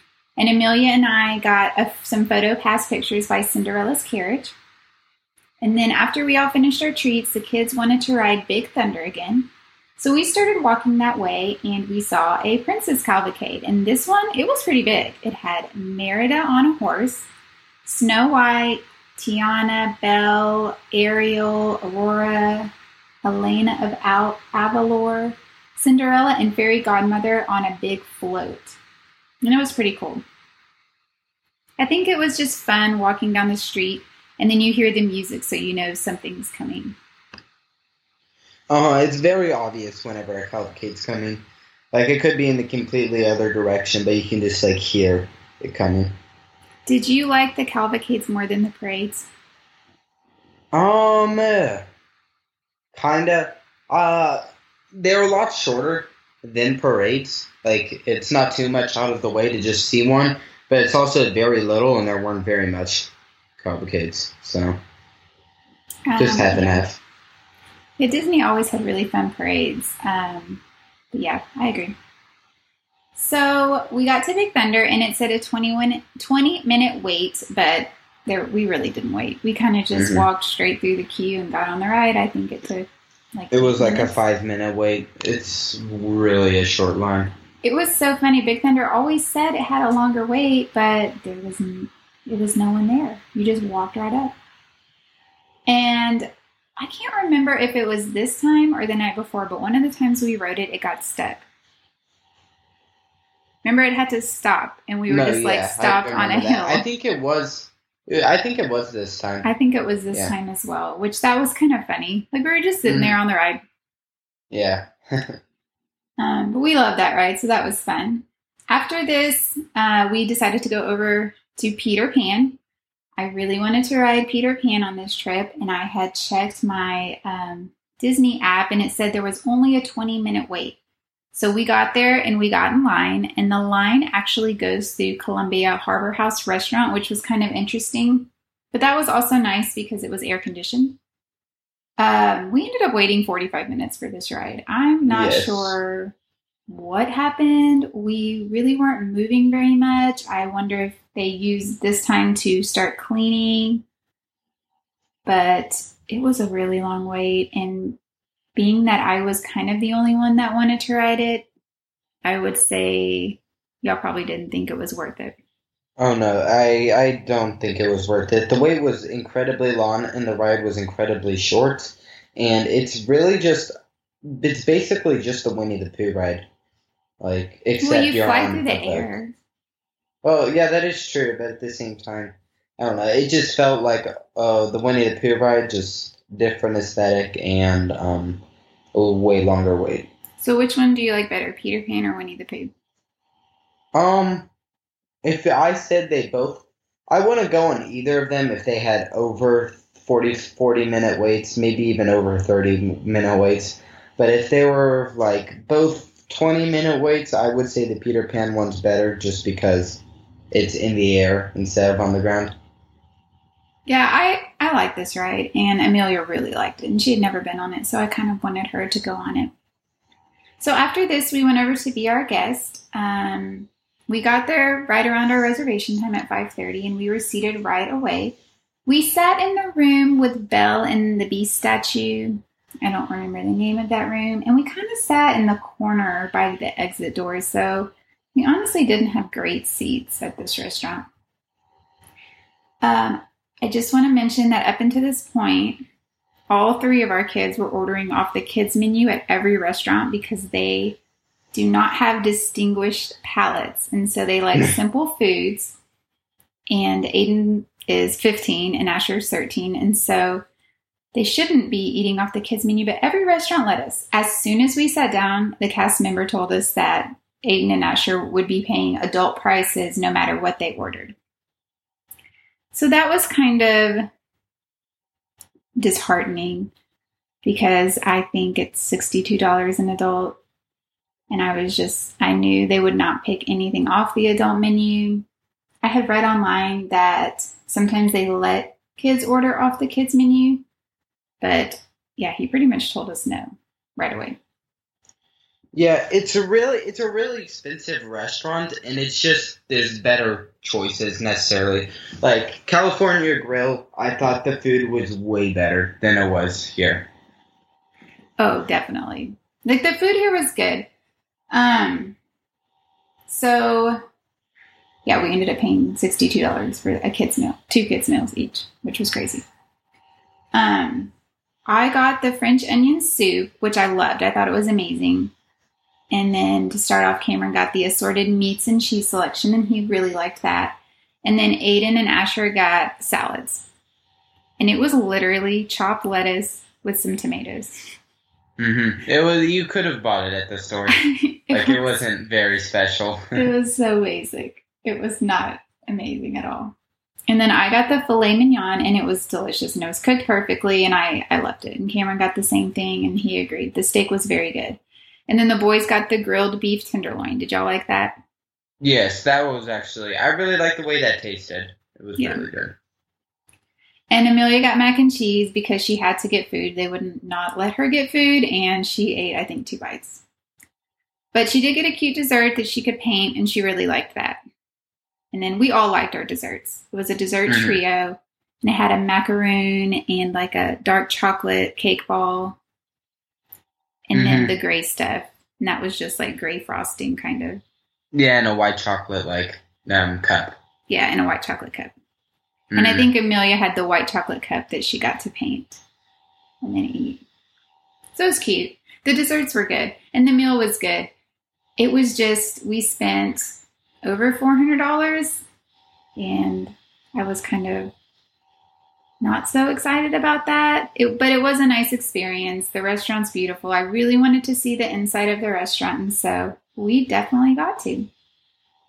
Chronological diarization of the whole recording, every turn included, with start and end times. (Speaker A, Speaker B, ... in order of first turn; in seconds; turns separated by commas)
Speaker A: 0.4-4.5, Speaker A: 5.6-17.3, Speaker A: 17.9-22.7, Speaker A: 23.2-28.8, Speaker A: 29.4-30.2, Speaker A: 31.8-37.0, Speaker B: 38.7-46.1, Speaker A: 46.9-49.3, Speaker B: 50.7-51.8, Speaker B: 52.9-64.8, Speaker A: 66.1-66.8, Speaker B: 66.2-67.0, Speaker A: 68.0-70.6, Speaker A: 71.1-72.0, Speaker A: 73.2-84.2, Speaker B: 79.9-80.3, Speaker B: 83.5-87.3, Speaker A: 87.6-94.3, Speaker A: 95.7-101.5, Speaker A: 103.6-106.8, Speaker B: 105.1-109.5, Speaker A: 109.4-113.6, Speaker B: 112.9-113.2, Speaker B: 114.5-115.4, Speaker A: 116.2-122.6, Speaker A: 123.2-130.8, Speaker A: 131.3-141.0, Speaker A: 142.0-146.2, Speaker B: 145.1-145.8, Speaker A: 146.7-153.8, Speaker A: 155.2-158.0, Speaker A: 158.6-161.5, Speaker A: 162.2-165.4, Speaker B: 166.0-173.7, Speaker B: 174.2-176.5, Speaker B: 177.2-179.1, Speaker A: 177.8-179.3, Speaker B: 180.2-188.4, Speaker B: 188.9-190.1, Speaker A: 190.4-192.7, Speaker B: 193.9-194.5, Speaker B: 195.2-212.5, Speaker A: 213.9-219.5, Speaker A: 220.6-241.1, Speaker A: 242.8-245.8, Speaker A: 246.5-251.0, Speaker A: 251.5-255.8, Speaker A: 256.7-260.4, Speaker A: 261.1-271.1, Speaker A: 272.7-274.1, Speaker A: 275.8-276.7, Speaker A: 277.4-280.4, Speaker A: 281.3-285.3, Speaker A: 285.8-290.6, Speaker A: 291.4-294.4, Speaker B: 295.7-307.1, Speaker A: 308.4-310.9, Speaker A: 311.5-312.2, Speaker A: 313.3-314.0, Speaker A: 315.1-319.4, Speaker A: 320.5-321.1, Speaker A: 321.7-325.3, Speaker A: 326.1-333.7, Speaker A: 334.6-337.8, Speaker B: 338.6-343.5, Speaker A: 340.9-342.1, Speaker A: 343.4-346.8, Speaker A: 347.3-358.1, Speaker B: 358.8-362.8, Speaker A: 362.2-362.5, Speaker A: 364.1-370.2, Speaker A: 371.3-374.4, Speaker A: 375.3-382.6, Speaker B: 377.5-377.8, Speaker A: 384.1-387.6, Speaker B: 384.1-384.5, Speaker B: 388.1-390.6, Speaker A: 390.9-391.9, Speaker B: 392.7-393.1, Speaker A: 392.8-395.8, Speaker A: 396.6-397.2, Speaker A: 398.1-401.1, Speaker A: 401.8-405.4, Speaker A: 406.2-407.9, Speaker A: 409.2-418.1